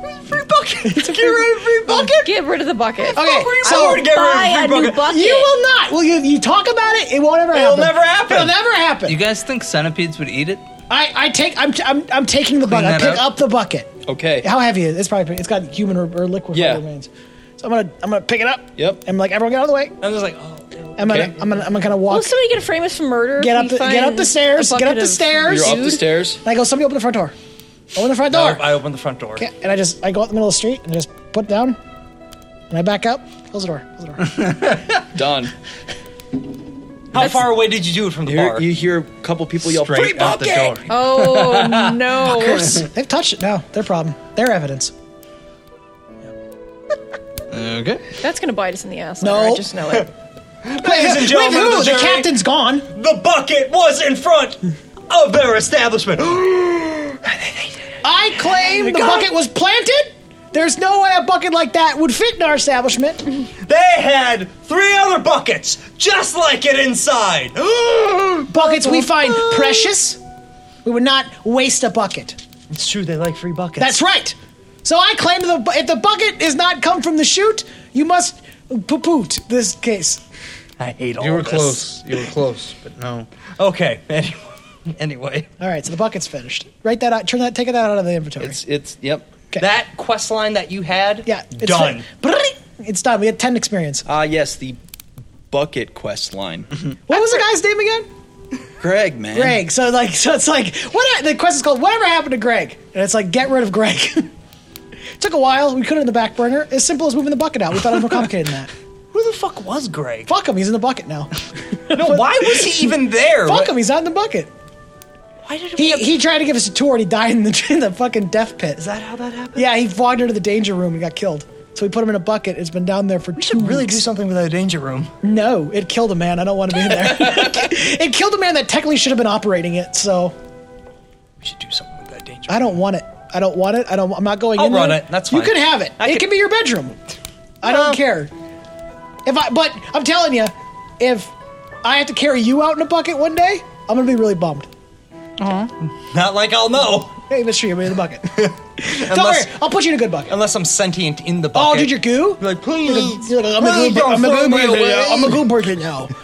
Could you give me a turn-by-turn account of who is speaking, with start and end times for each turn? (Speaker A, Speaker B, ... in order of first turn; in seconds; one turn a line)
Speaker A: 0.1-2.3
Speaker B: 0.8-2.1
Speaker C: 1.9-5.6
Speaker A: 3.1-5.2
Speaker B: 3.1-4.1
Speaker B: 5.0-9.2
Speaker A: 7.5-8.5
Speaker D: 9.1-10.6
Speaker B: 10.9-13.9
Speaker D: 12.6-13.3
Speaker E: 14.1-14.5
Speaker B: 14.4-20.0
Speaker E: 16.5-16.8
Speaker E: 18.8-19.0
Speaker A: 20.0-22.0
Speaker B: 21.0-22.4
Speaker E: 21.1-21.3
Speaker C: 22.1-26.0
Speaker B: 23.4-27.3
Speaker E: 25.5-26.4
Speaker B: 27.9-28.7
Speaker A: 28.3-29.5
Speaker B: 29.4-31.8
Speaker B: 32.7-34.4
Speaker D: 34.3-35.0
Speaker E: 35.1-35.5
Speaker A: 37.1-38.7
Speaker E: 38.3-40.4
Speaker D: 39.7-42.8
Speaker A: 40.0-40.8
Speaker C: 40.9-42.9
Speaker B: 42.4-44.9
Speaker D: 47.5-48.2
Speaker C: 48.2-50.1
Speaker B: 49.2-49.7
Speaker A: 50.6-52.3
Speaker B: 50.8-52.9
Speaker A: 52.9-57.7
Speaker B: 58.0-63.3
Speaker A: 58.3-59.3
Speaker A: 63.6-69.4
Speaker B: 68.5-70.2
Speaker B: 70.8-72.4
Speaker A: 72.7-74.0
Speaker B: 73.8-80.2
Speaker A: 80.8-82.0
Speaker D: 81.2-83.3
Speaker A: 83.6-85.5
Speaker B: 85.6-88.6
Speaker E: 88.4-89.3
Speaker A: 89.6-92.0
Speaker B: 91.3-94.0
Speaker E: 94.0-94.8
Speaker E: 95.5-96.7
Speaker B: 97.1-98.1
Speaker E: 98.8-99.6
Speaker B: 99.3-104.3
Speaker B: 105.2-108.7
Speaker A: 109.1-110.3
Speaker B: 110.3-114.5
Speaker A: 111.9-113.8
Speaker A: 115.4-116.1
Speaker B: 115.8-118.8
Speaker A: 118.8-119.7
Speaker B: 119.5-124.0
Speaker A: 123.4-125.1
Speaker B: 125.2-130.3
Speaker E: 126.9-127.5
Speaker A: 131.4-132.8
Speaker B: 132.5-137.0
Speaker A: 134.6-136.3
Speaker B: 137.6-138.3
Speaker A: 137.6-138.0
Speaker B: 139.3-144.7
Speaker D: 145.4-145.7
Speaker A: 146.1-147.2
Speaker B: 147.3-150.4
Speaker A: 148.9-149.5
Speaker A: 150.3-155.5
Speaker B: 151.5-156.1